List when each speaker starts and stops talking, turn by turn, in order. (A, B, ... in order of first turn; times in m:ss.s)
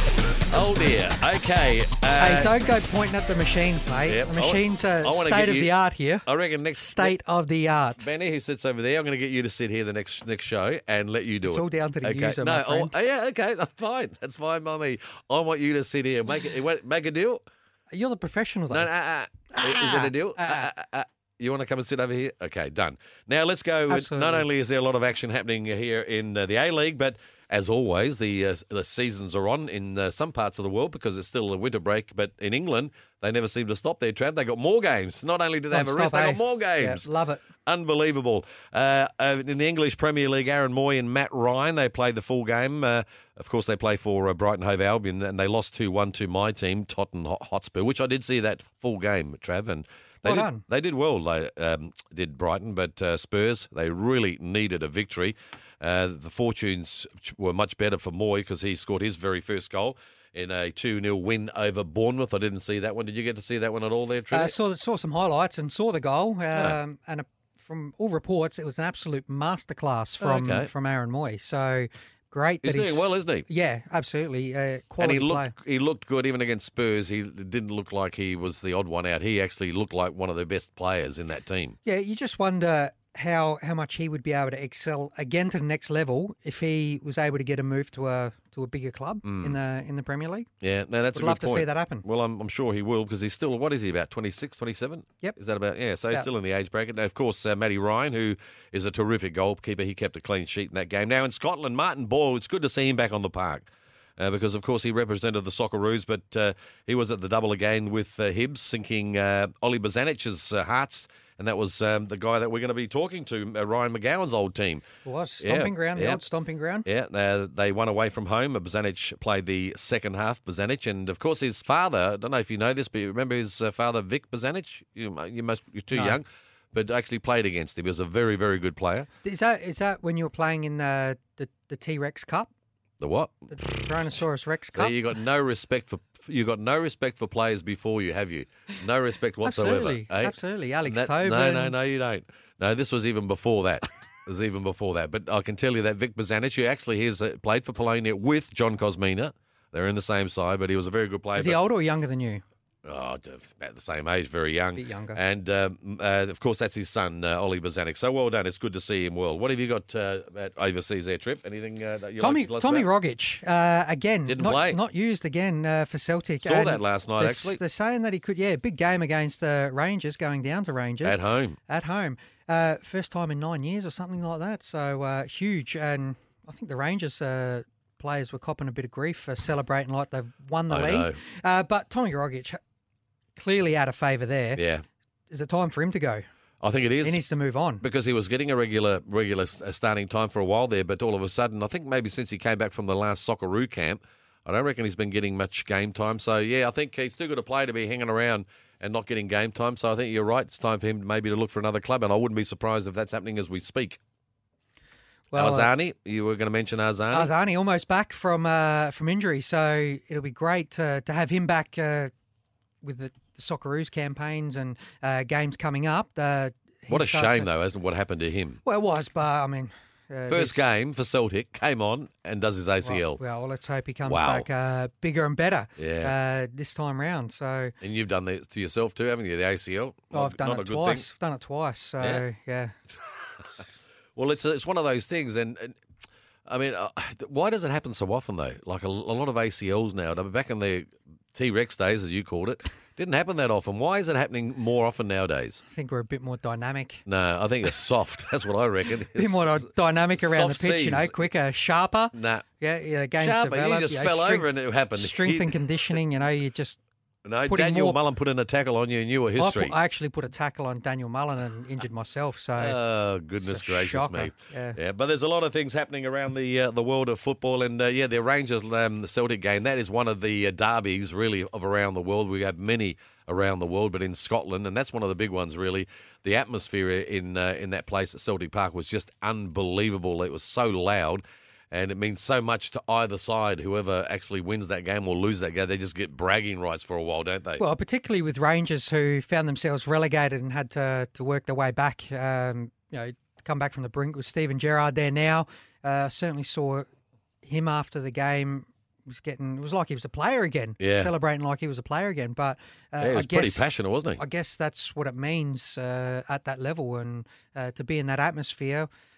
0:00.5-0:02.5 A
0:02.2-0:06.2 B
0:04.1-0:05.7 A
0:06.2-0:07.1 A
0:06.8-0:08.1 B
0:08.0-0:17.4 A
0:11.4-0:12.9 B
0:17.9-0:18.9 B
0:18.7-0:37.1 A
0:19.6-0:20.7 B
0:23.9-0:24.4 B
0:35.7-0:37.4 B
0:37.6-1:04.5 A
0:50.2-0:50.6 B
1:04.3-1:15.5 B
1:10.2-1:10.7 A
1:12.6-1:13.4 A
1:15.0-1:21.8 A
1:21.8-1:30.5 B
1:29.2-1:29.5 A
1:30.6-1:54.8 A
1:31.1-1:32.0 B
1:55.0-1:56.9 B
1:55.4-1:56.2 A
1:56.8-2:09.1 A
2:05.9-2:06.2 B
2:09.2-2:12.5 B
2:13.0-2:13.5 A
2:13.5-2:15.0 B
2:14.7-2:20.3 A
2:19.4-2:21.7 B
2:20.8-2:31.6 A
2:31.3-2:32.4 B
2:32.8-2:42.9 A
2:34.8-2:35.2 B
2:42.2-3:02.6 B
2:44.3-2:44.8 A
2:46.4-2:47.6 A
2:51.0-2:51.6 A
3:00.7-3:01.2 A
3:03.4-3:04.6 B
3:04.6-3:04.8 A
3:05.3-3:06.2 B
3:06.6-3:07.2 A
3:07.0-3:07.8 B
3:07.8-3:24.0 A
3:25.3-3:25.7 B
3:25.3-3:27.3 A
3:27.1-3:32.1 B
3:32.8-3:37.5 B
3:36.9-3:38.6 A
3:38.6-3:40.6 B
3:40.3-3:43.2 A
3:42.8-3:47.7 B
3:44.1-3:44.5 A
3:45.8-3:46.1 A
3:47.8-3:51.0 A
3:50.1-3:52.7 B
3:54.2-3:55.8 A
3:56.5-4:05.6 A
4:05.7-4:07.0 B
4:07.0-4:09.6 A
4:09.1-4:16.8 B
4:10.2-4:11.1 A
4:12.1-4:12.4 A
4:13.2-4:15.9 A
4:17.2-4:19.7 A
4:17.5-4:18.0 B
4:19.4-4:22.8 B
4:22.6-4:47.6 A
4:23.4-4:24.8 B
4:47.6-4:56.8 B
4:57.4-5:08.9 B
5:00.8-5:01.1 A
5:03.0-5:04.2 A